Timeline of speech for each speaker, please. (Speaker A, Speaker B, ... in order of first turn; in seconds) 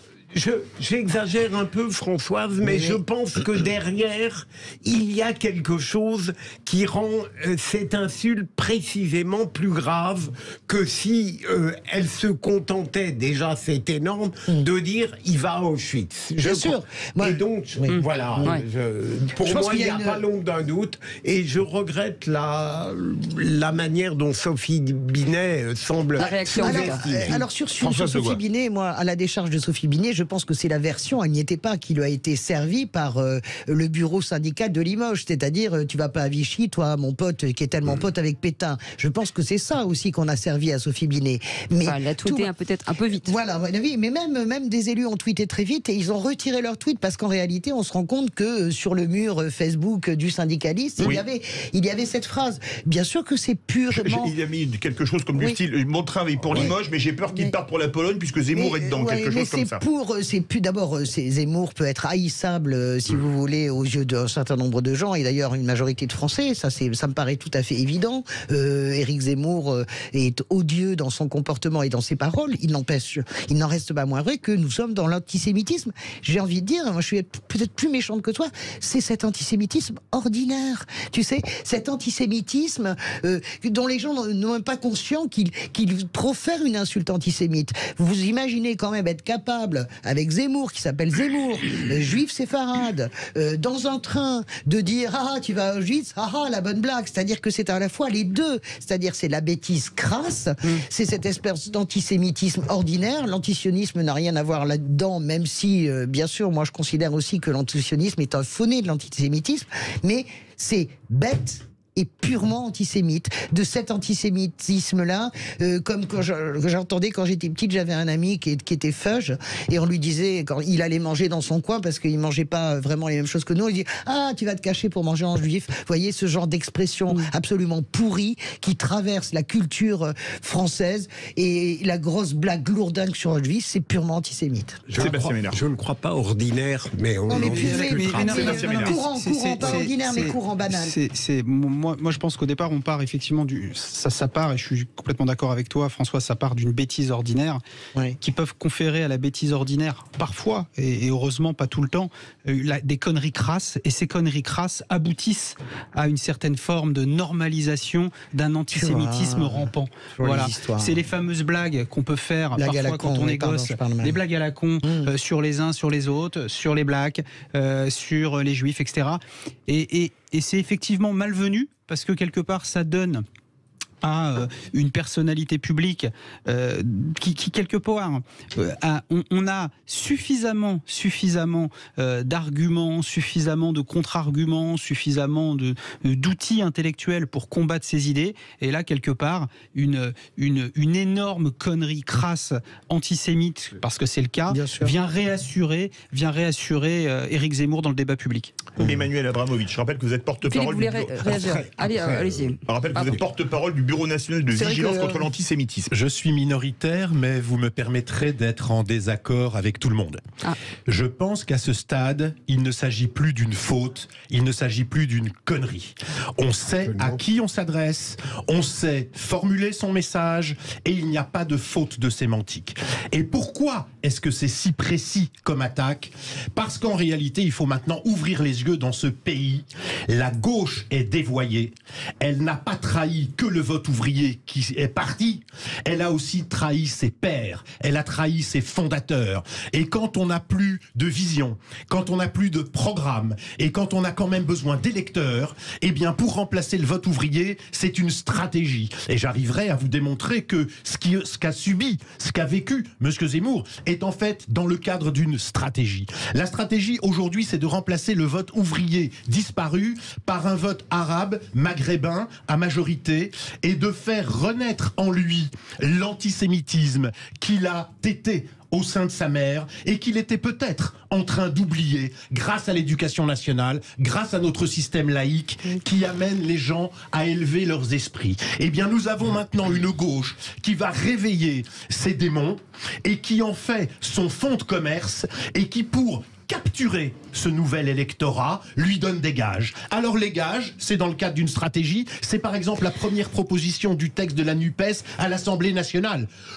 Speaker A: 0.3-27.4, 134.9-138.3, 201.3-202.4, 216.8-217.2
Speaker B: 2.6-3.0, 16.4-18.0, 19.4-20.2, 26.6-42.5, 43.1-54.3, 58.5-135.0, 137.3-140.9, 158.7-161.0, 162.6-164.2, 164.8-165.1, 194.5-194.9, 204.5-205.3
Speaker C: 17.9-18.6, 26.1-27.0, 41.8-43.3, 200.5-203.2
Speaker D: 27.1-28.4, 53.9-59.8, 134.9-135.6, 137.6-139.0, 198.8-201.6, 202.7-205.9
Speaker E: 137.3-147.6, 148.2-173.2, 174.0-198.7
Speaker F: 205.9-210.2, 210.9-296.3